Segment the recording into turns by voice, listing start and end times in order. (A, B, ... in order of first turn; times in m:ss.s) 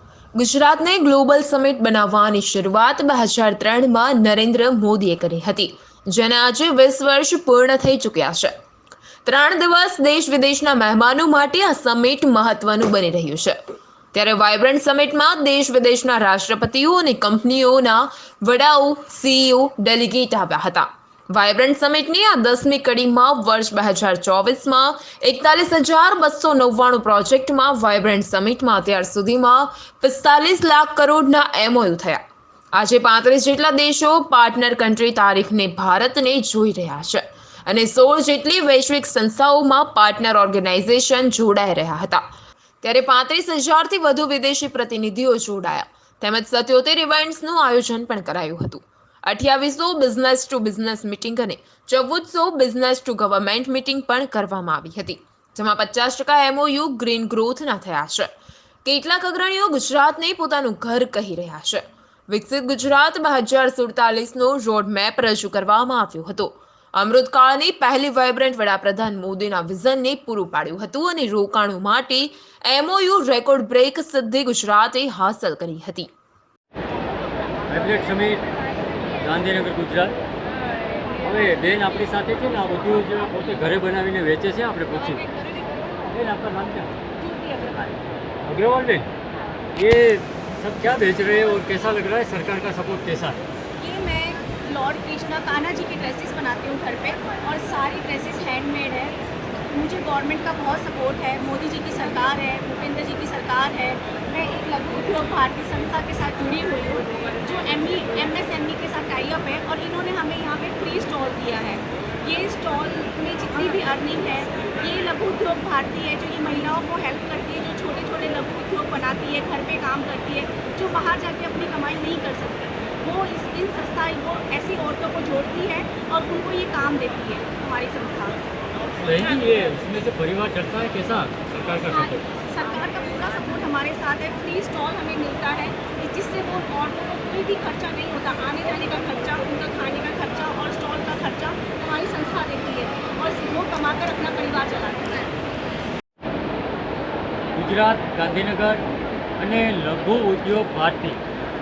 0:00.4-0:08.5 A
0:09.2-0:13.6 A
0:14.1-0:32.2 A
0:32.8-0:42.2 A
0:42.8-0:58.3 A
0:58.8-1:16.1 A
1:17.7-1:18.4 B
1:19.2-1:20.2 B
1:21.2-1:25.3 B
1:26.1-1:26.9 B
1:27.2-1:28.0 C
1:28.4-1:29.1 B
1:29.8-1:33.4 B
1:33.8-1:39.2 C
1:39.7-2:08.4 C
2:09.0-2:12.3 B
2:11.9-2:25.3 C
2:27.6-2:28.8 B
2:29.4-2:31.2 B